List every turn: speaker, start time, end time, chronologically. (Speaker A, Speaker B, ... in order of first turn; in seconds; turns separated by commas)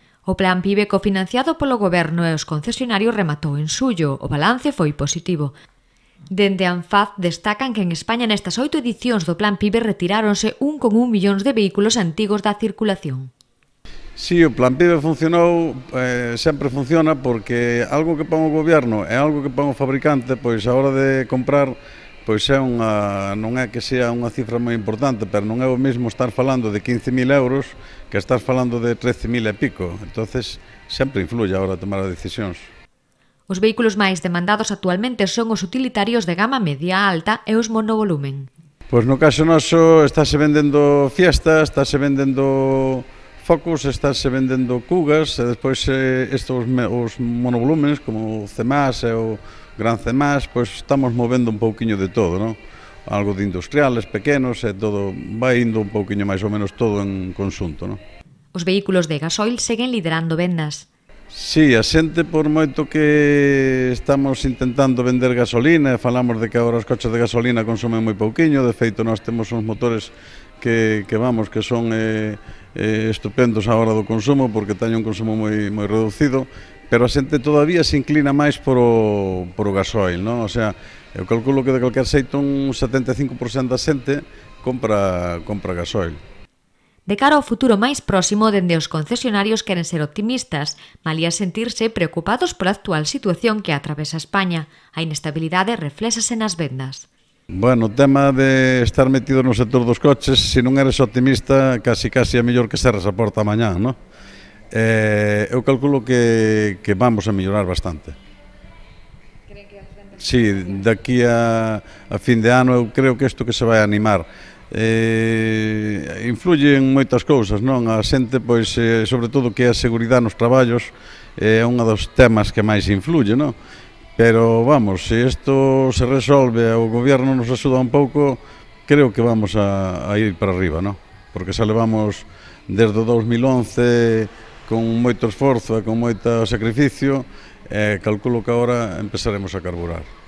Speaker A: 0.3-5.5, Speaker A: 6.3-13.3, Speaker B: 14.2-32.7, Speaker A: 33.5-38.5, Speaker B: 38.9-58.0, Speaker A: 58.5-60.9, Speaker B: 61.3-86.2, Speaker A: 87.1-97.1, Speaker B: 97.5-104.0, Speaker B: 104.7-108.2, Speaker A: 109.5-110.1, Speaker B: 110.2-123.5, Speaker B: 124.2-140.1